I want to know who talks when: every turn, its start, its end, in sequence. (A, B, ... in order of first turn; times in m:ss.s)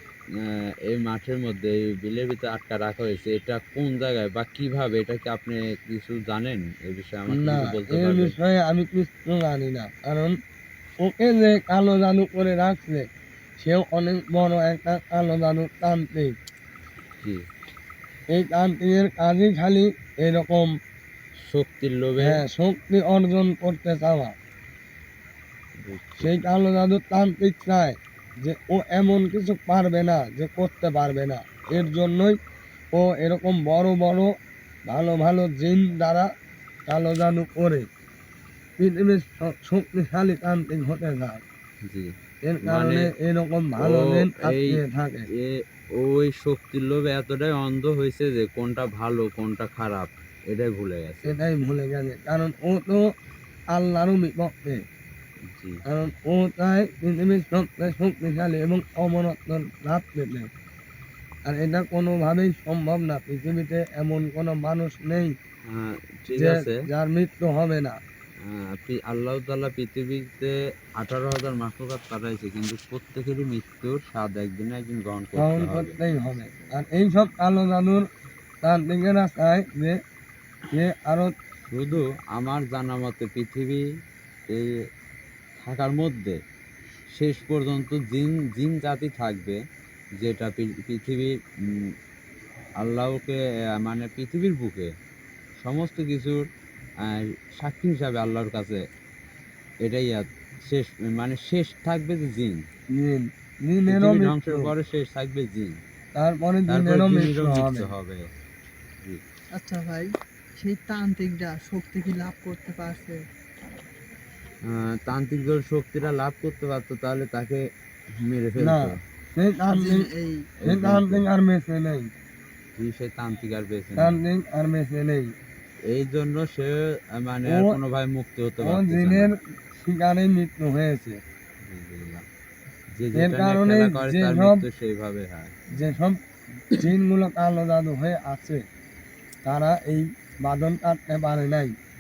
0:00.3-0:08.4 A
0:07.3-0:10.4 B
0:11.0-0:16.4 B
0:18.3-0:20.8 B
0:21.4-0:22.4 A
0:22.2-0:24.4 B
0:25.8-0:26.4 A
0:26.2-0:32.4 B
0:32.9-0:36.3 B
0:36.9-0:37.9 B
0:38.8-0:41.4 B
0:41.8-0:43.1 A
0:42.4-0:45.3 B
0:43.8-0:51.4 A
0:51.2-0:53.1 B
0:53.7-0:54.8 B
0:55.5-0:55.8 A
0:55.9-1:00.5 B
1:01.5-1:05.4 B
1:05.7-1:06.8 A
1:06.3-1:08.0 B
1:08.4-1:16.0 A
1:15.4-1:18.1 B
1:18.6-1:20.0 B
1:20.7-1:21.4 B
1:21.7-1:23.8 A
1:24.5-1:24.8 A
1:25.6-1:26.4 A
1:27.2-1:29.6 A
1:30.2-1:31.9 A
1:32.8-1:34.9 A
1:35.6-1:36.4 A
1:37.0-1:38.8 A
1:39.8-1:42.6 A
1:42.9-1:44.7 B
1:43.9-1:45.8 A
1:46.2-1:47.9 B
1:46.7-1:48.3 A
1:49.5-1:53.2 C
1:54.6-1:57.6 A
1:58.2-1:59.0 A
1:58.6-2:00.1 B
1:59.7-2:00.5 C
2:00.6-2:01.2 A
2:00.6-2:02.1 B
2:02.8-2:04.2 A
2:04.0-2:05.4 B
2:05.9-2:09.3 A
2:07.5-2:07.8 B
2:08.6-2:11.2 B
2:11.6-2:12.2 A
2:13.0-2:15.6 A
2:13.2-2:14.6 B
2:15.7-2:18.6 B
2:19.4-2:21.8 B